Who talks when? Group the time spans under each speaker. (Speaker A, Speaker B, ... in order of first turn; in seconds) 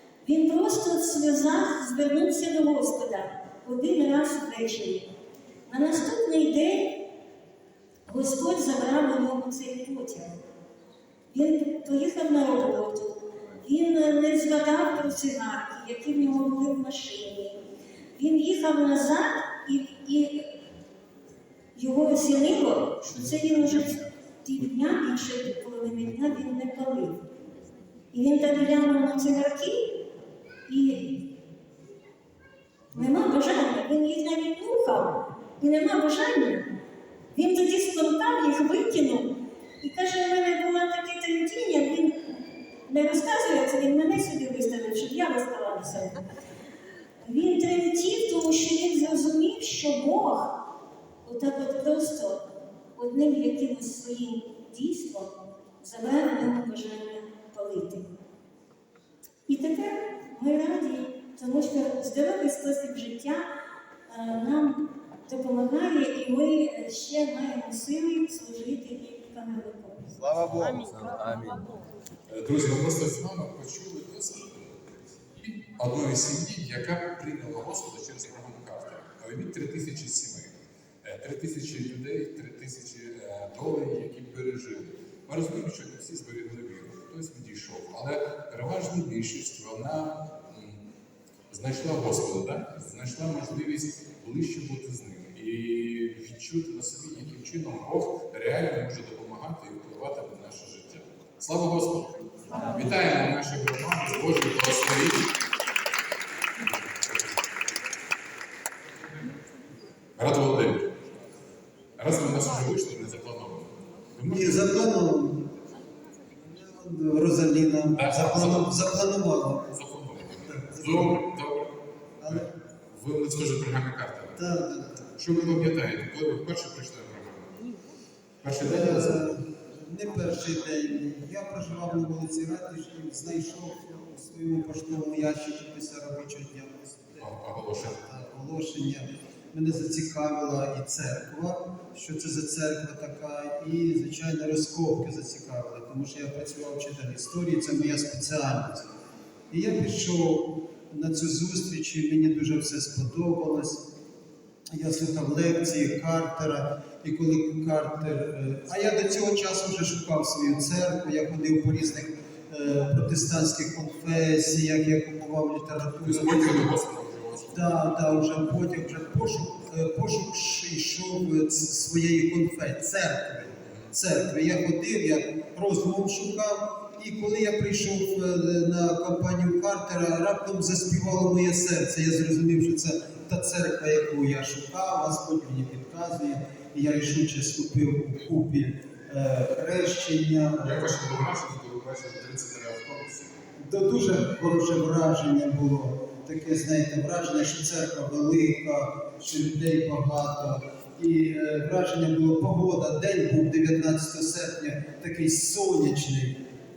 Speaker A: 0.2-5.1, 5.7-7.0, 8.1-10.4, 11.3-17.6, 18.1-20.5, 21.7-27.2, 28.1-30.0, 30.7-31.3, 32.9-36.7, 37.3-46.2, 47.2-50.6, 51.2-52.4, 53.0-58.1, 59.5-63.5, 64.1-70.3
Speaker B: 72.3-74.8, 75.3-90.8, 91.5-105.3, 110.2-110.9, 112.0-114.7, 118.0-118.9, 119.7-121.7, 122.3-124.4, 125.2-127.5, 128.4-129.3, 137.2-138.0, 166.0-167.7, 190.6-193.3
Speaker C: 114.2-115.5, 116.4-119.7, 120.7-121.2, 122.2-122.5, 124.4-125.7, 128.6-137.3, 137.9-148.9, 149.5-153.8, 154.7-166.7, 167.5-190.9, 193.6-206.4